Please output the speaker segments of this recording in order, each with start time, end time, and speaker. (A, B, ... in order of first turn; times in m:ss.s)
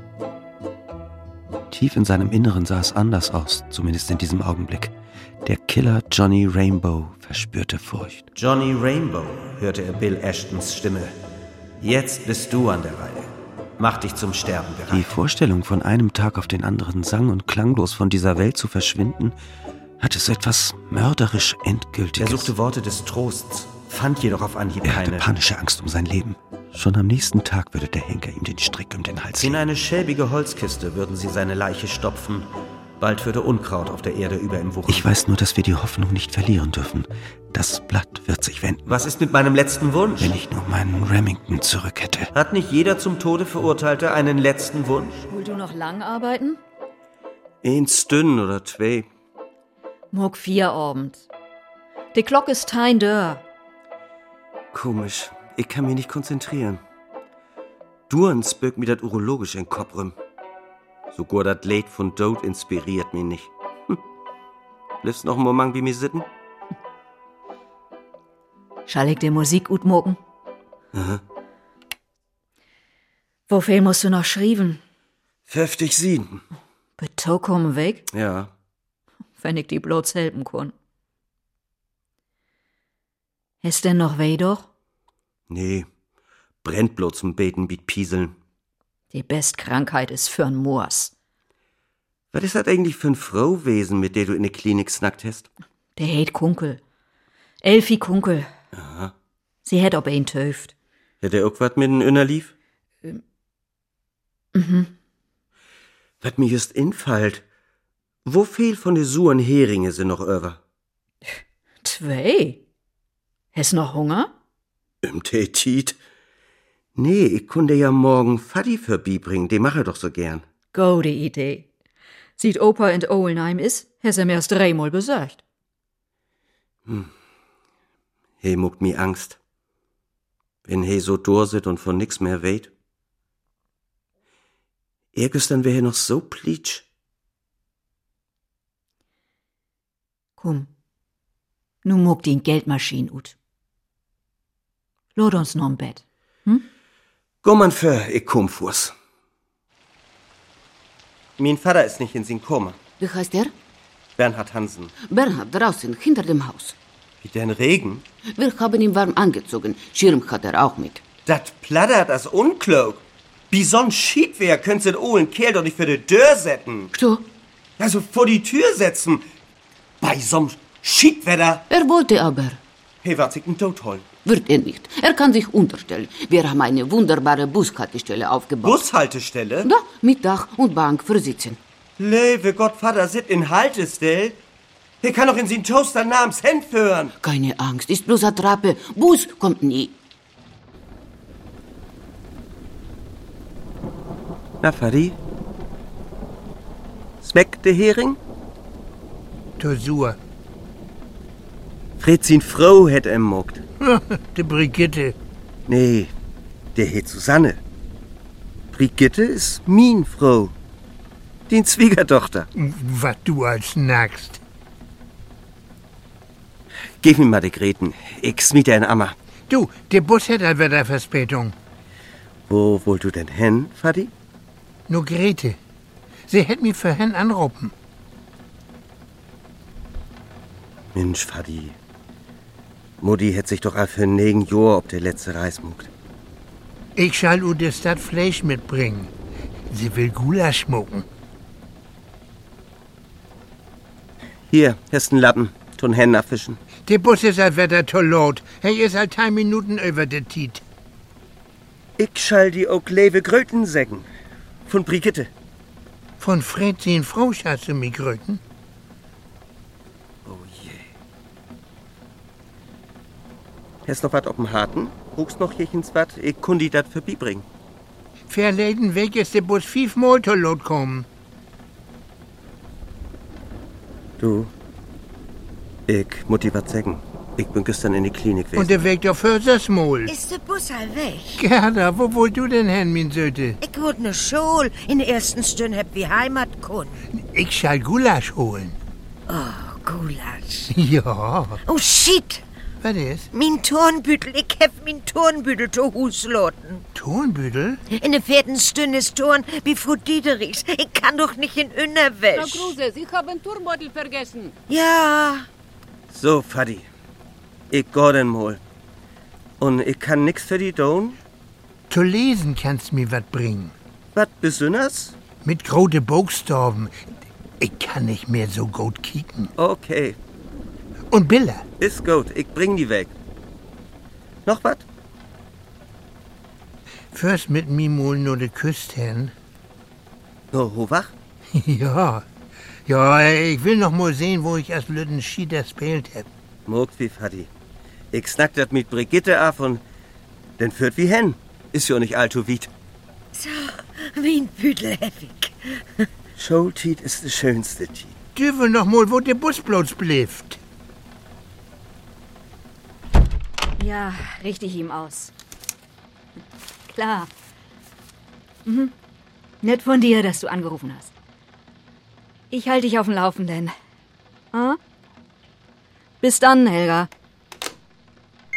0:01.7-0:08.3 A
0:08.4-0:11.2 B
0:11.8-0:15.1 B
0:14.9-0:19.4 A
0:20.0-0:22.5 A
0:22.2-0:25.3 B
0:24.8-0:29.6 A
0:29.4-0:35.1 B
0:34.9-0:38.9 A
0:38.9-0:40.4 B
0:40.2-0:42.3 A
0:42.3-0:45.2 B
0:45.3-0:46.6 C
0:47.6-0:49.1 B
0:50.1-0:51.3 C
0:52.1-0:53.4 C
0:54.7-0:56.8 B
0:58.1-1:00.2 B
1:01.1-1:04.0 B
1:05.0-1:06.3 B
1:08.9-1:10.2 C
1:10.9-1:11.2 B
1:13.5-1:14.8 C
1:15.5-1:16.4 B
1:17.0-1:18.1 C
1:18.1-1:18.5 B
1:19.4-1:20.7 C
1:23.6-1:24.7 C
1:25.5-1:25.9 B
1:26.6-1:28.4 B
1:29.1-1:31.1 C
1:32.3-1:35.5 B
1:36.0-1:36.8 C
1:37.6-1:38.5 C
1:38.7-1:39.1 B
1:39.6-1:40.7 C
1:41.2-1:42.5 B
1:44.5-1:44.9 C
1:46.2-1:47.4 B
1:48.2-1:50.6 B
1:51.8-1:52.6 C
1:53.5-1:54.3 C
1:55.0-1:56.0 B
1:57.0-2:00.4 B
2:00.7-2:01.7 C
2:02.4-2:05.4 C
2:08.4-2:09.4 B
2:10.7-2:12.7 B
2:15.2-2:16.8 B
2:20.4-2:20.7 C
2:21.8-2:23.4 C
2:25.2-2:26.6 C
2:27.4-2:28.9 B
2:31.4-2:32.8 B
2:33.0-2:33.5 D
2:34.2-2:34.9 B
2:35.0-2:36.8 D
2:37.2-2:38.0 B
2:38.3-2:41.0 D
2:41.3-2:46.9 B
2:46.9-2:47.2 D
2:47.8-2:49.2 B
2:50.0-2:51.7 B
2:51.7-2:52.6 D
2:53.0-2:54.1 B
2:54.2-2:58.8 D
2:58.6-2:59.7 B
2:59.6-3:01.6 D
3:02.0-3:04.4 B
3:05.0-3:07.2 B
3:07.2-3:10.0 D
3:14.6-3:15.2 B
3:17.2-3:18.2 B
3:19.6-3:20.2 E
3:22.0-3:23.6 B
3:23.8-3:25.2 E
3:25.7-3:26.1 B
3:26.8-3:27.6 B
3:28.7-3:30.5 B
3:31.5-3:32.5 B
3:32.6-3:34.4 E
3:37.0-3:39.2 B
3:39.5-3:41.6 E
3:42.5-3:44.1 B
3:44.9-3:45.6 E
3:46.3-3:47.7 E
3:51.0-3:51.8 B
3:53.0-3:55.9 B
3:57.0-3:59.1 E
3:59.7-4:01.1 E
4:04.5-4:06.6 B
4:06.8-4:10.6 E
4:12.0-4:14.1 B
4:14.7-4:15.3 B
4:16.2-4:18.4 E
4:20.3-4:20.8 B
4:23.9-4:27.5 B
4:28.3-4:31.1 E
4:34.2-4:34.5 B
4:35.9-4:38.8 B
4:38.6-4:40.1 E
4:40.1-4:41.4 F
4:41.4-4:43.6 E
4:43.6-4:47.0 F
4:47.2-4:48.8 E
4:49.3-4:50.7 F
4:50.7-4:51.6 E
4:51.6-4:52.4 F
4:52.8-4:53.3 E
4:53.3-4:56.9 F
4:57.0-4:57.8 E
4:57.9-5:02.8 F
5:02.4-5:04.5 G
5:04.7-5:05.5 F
5:06.1-5:06.9 B
5:07.7-5:08.6 B
5:09.6-5:11.2 B
5:11.9-5:13.7 E
5:14.2-5:15.1 B
5:15.4-5:17.0 E
5:17.6-5:19.5 E
5:19.6-5:20.2 B
5:21.1-5:21.6 E
5:21.8-5:23.1 B
5:24.5-5:24.8 B
5:27.1-5:29.3 E
5:30.5-5:31.1 B
5:31.5-5:32.3 E
5:32.9-5:36.3 E
5:36.7-5:37.5 B
5:38.1-5:39.8 B
5:40.6-5:42.7 B
5:43.3-5:46.0 F
5:46.4-5:48.2 B
5:48.4-5:50.6 E
5:53.8-5:55.3 C
5:56.9-5:57.3 C
5:58.7-5:58.9 C
5:59.6-6:01.1 C
6:02.5-6:03.7 C
6:04.5-6:04.8 C
6:06.2-6:07.1 C